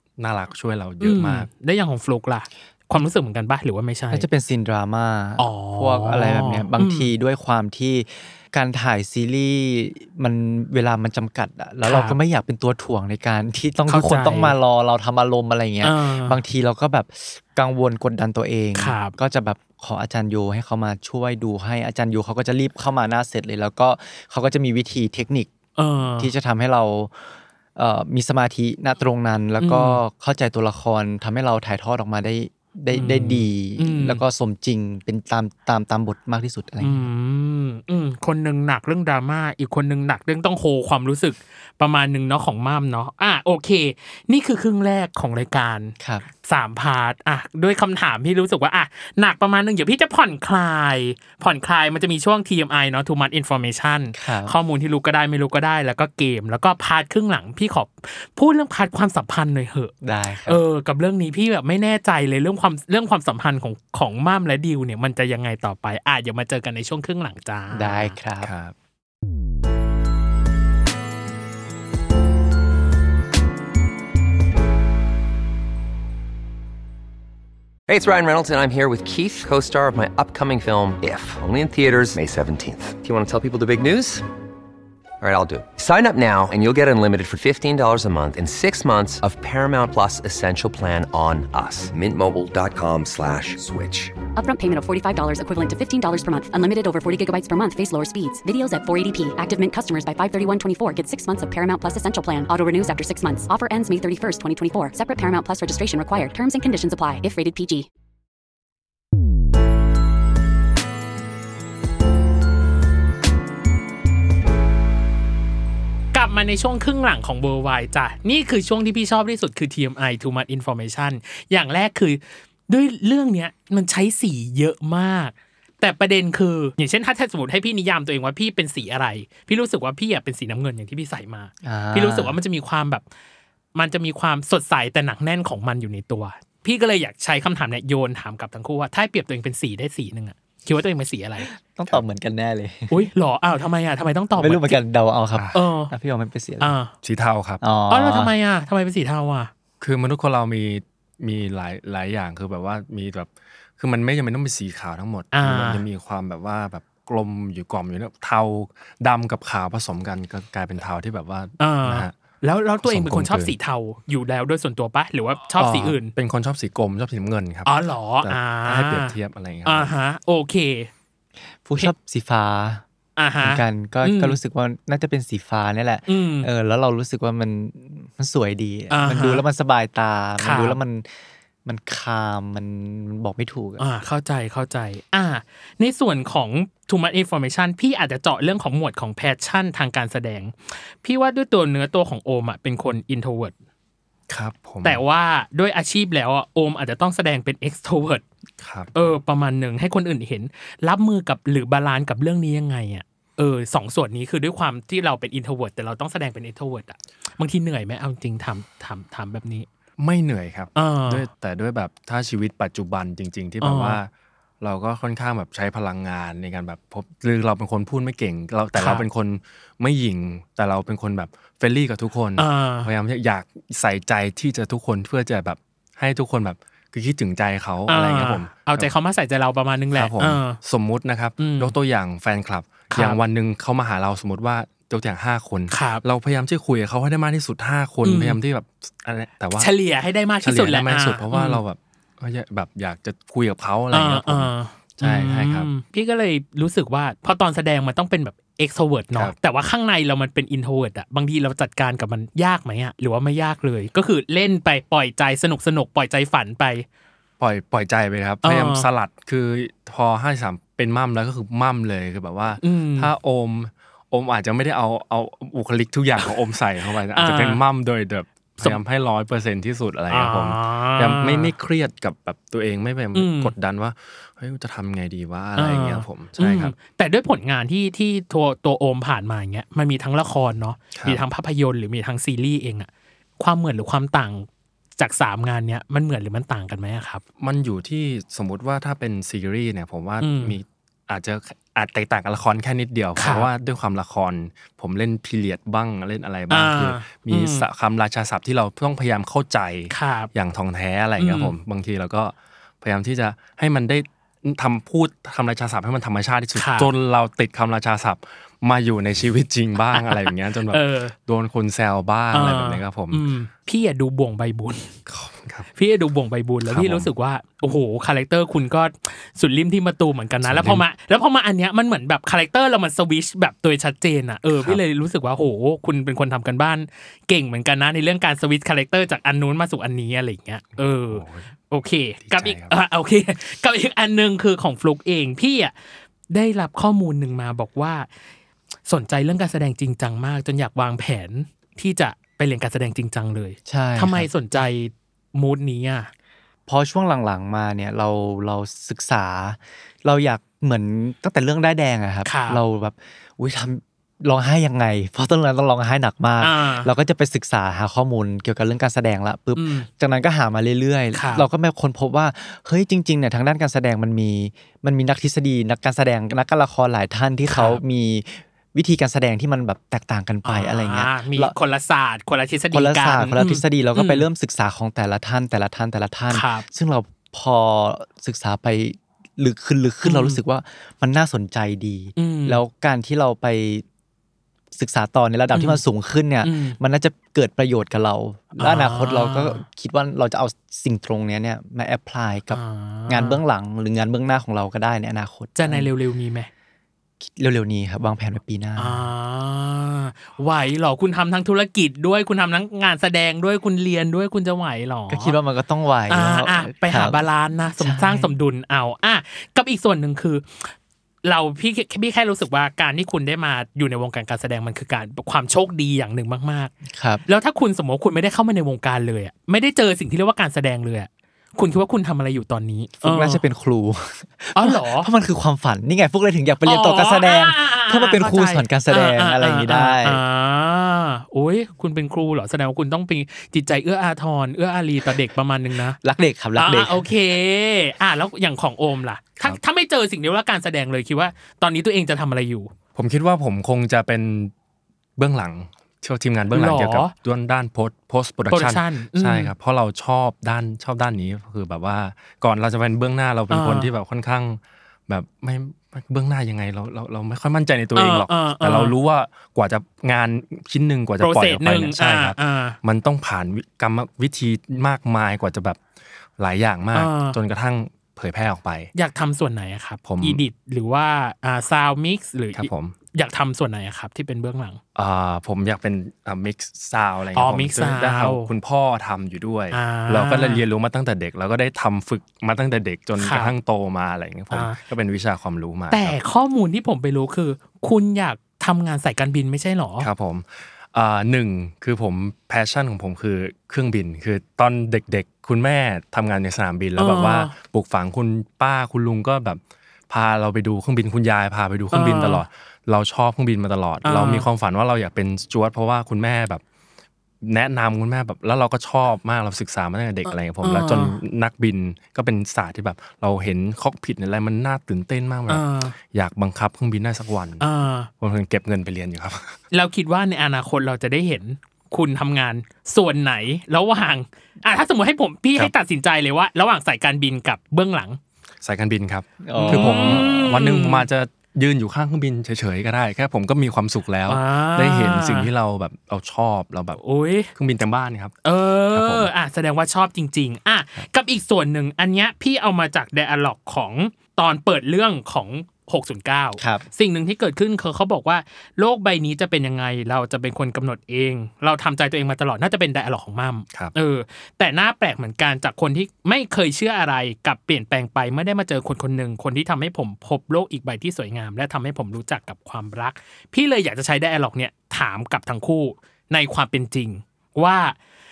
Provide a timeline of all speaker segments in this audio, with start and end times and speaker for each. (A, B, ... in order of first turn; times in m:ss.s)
0:00.2-0:01.5 A
0:01.0-0:04.3 B
0:04.1-0:25.5 C
0:05.4-0:07.1 B
0:11.8-0:12.2 B
0:13.9-0:14.6 B
0:15.8-0:16.4 B
0:18.8-0:19.2 B
0:25.8-0:26.3 B
0:26.2-0:37.0 C
0:29.6-0:30.0 B
0:32.9-0:34.2 B
0:36.8-0:45.9 B
0:46.0-0:46.3 C
0:46.4-0:59.9 B
0:54.1-0:54.5 C
1:00.0-1:00.6 C
1:00.4-1:08.2 B
1:07.7-1:08.5 C
1:08.4-1:08.7 A
1:17.9-1:24.2 D
1:25.2-1:34.1 D
1:34.3-1:47.9 E
1:56.1-2:13.0 B
2:11.6-2:12.4 C
2:13.7-2:21.5 B
2:21.4-2:23.0 C
2:22.9-2:24.8 B
2:24.4-2:26.7 C
2:25.3-2:25.6 A
2:25.5-2:25.9 B
2:26.6-2:26.9 B
2:27.0-2:27.6 A
2:27.6-2:28.3 C
2:27.9-2:29.5 B
2:29.8-2:42.1 A
2:35.3-2:35.8 B
2:41.6-2:46.1 B
2:42.8-2:43.5 A
2:45.5-2:49.9 A
2:47.6-2:50.9 B
2:51.6-2:52.8 C
2:53.2-2:54.4 B
2:53.4-3:01.1 C
2:56.1-2:56.5 B
2:58.9-2:59.4 B
3:00.4-3:00.8 B
3:01.6-3:03.8 C
3:03.8-3:13.5 B
3:14.3-3:15.0 A
3:14.8-3:18.2 B
3:18.6-3:18.9 A
3:18.9-3:29.7 B
3:30.0-3:34.1 A
3:30.8-3:31.2 B
3:33.6-3:34.0 B
3:34.6-3:48.9 A
3:38.8-3:39.0 B
3:42.4-3:42.9 B
3:47.9-3:50.6 B
3:50.0-3:59.7 A
3:51.4-3:51.7 B
3:52.9-3:53.2 B
3:55.7-3:56.0 B
3:58.0-3:58.4 B
3:59.6-4:01.6 B
4:00.4-4:05.7 A
4:03.9-4:16.8 B
4:17.4-4:36.7 A
4:18.4-4:18.9 B
4:22.6-4:23.1 B
4:27.2-4:27.6 B
4:30.1-4:31.5 B
4:33.1-4:33.5 B
4:35.6-4:47.2 B
4:40.9-4:41.2 A
4:47.4-5:13.2 A
4:50.2-4:50.6 B
4:53.2-4:53.5 B
4:56.5-4:57.6 B
4:59.9-5:00.3 B
5:01.2-5:01.6 B
5:06.5-5:06.9 B
5:09.9-5:11.1 B
5:12.3-5:14.9 B
5:15.1-5:15.7 A
5:15.8-5:35.7 B
5:16.6-5:17.1 A
5:20.4-5:20.8 A
5:30.8-5:31.5 A
5:32.2-5:32.7 A
5:36.3-5:38.1 B
5:38.9-5:46.1 B
5:43.6-5:44.3 C
5:46.7-6:11.5 C
5:52.2-5:52.6 B
5:56.4-5:56.9 B
5:59.5-5:59.9 B
6:01.1-6:01.4 B
6:07.5-6:07.8 B
6:10.4-6:14.3 B
6:12.7-6:23.8 C
6:16.3-6:16.6 B
6:20.0-6:20.4 B
6:22.2-6:22.6 B
6:24.7-6:35.9 C
6:25.5-6:25.8 B
6:26.4-6:26.8 B
6:28.6-6:29.6 B
6:32.5-6:33.4 B
6:35.6-6:36.5 B
6:37.2-6:39.1 C
6:38.8-6:45.4 B
6:45.1-6:47.2 C
6:46.1-6:50.7 B
6:47.8-6:48.3 C
6:51.2-6:56.7 B
6:56.9-6:57.2 C
6:57.3-7:03.4 B
7:03.0-7:10.2 C
7:04.5-7:05.1 B
7:06.6-7:16.0 B
7:16.0-7:17.1 C
7:16.6-7:22.7 B
7:23.0-7:24.5 A
7:25.2-7:45.8 A
7:26.5-7:27.1 B
7:28.5-7:29.5 B
7:33.5-7:33.9 B
7:38.0-7:39.0 B
7:41.2-7:42.8 B
7:46.4-7:48.9 A
7:46.9-7:47.4 B
7:48.9-7:54.8 B
7:50.0-7:50.4 A
7:52.6-7:52.9 A
7:55.0-8:06.2 A
7:57.3-7:58.5 B
7:59.7-8:00.6 B
8:03.2-8:03.5 B
8:04.5-8:04.8 B
8:05.9-8:10.1 B
8:10.0-8:26.6 A
8:17.0-8:17.5 B
8:21.9-8:22.4 B
8:24.0-8:24.4 B
8:27.4-8:37.6 A
8:30.2-8:31.2 B
8:35.5-8:35.9 B
8:37.6-8:38.1 B
8:38.2-8:39.6 A
8:39.7-8:48.2 B
8:48.6-8:57.0 A
8:49.4-8:50.2 C
8:49.6-8:51.0 B
8:54.3-8:55.5 B
8:57.0-8:57.5 B
8:57.5-8:58.4 A
8:58.4-9:28.0 B
8:58.9-8:59.3 A
9:06.6-9:06.8 C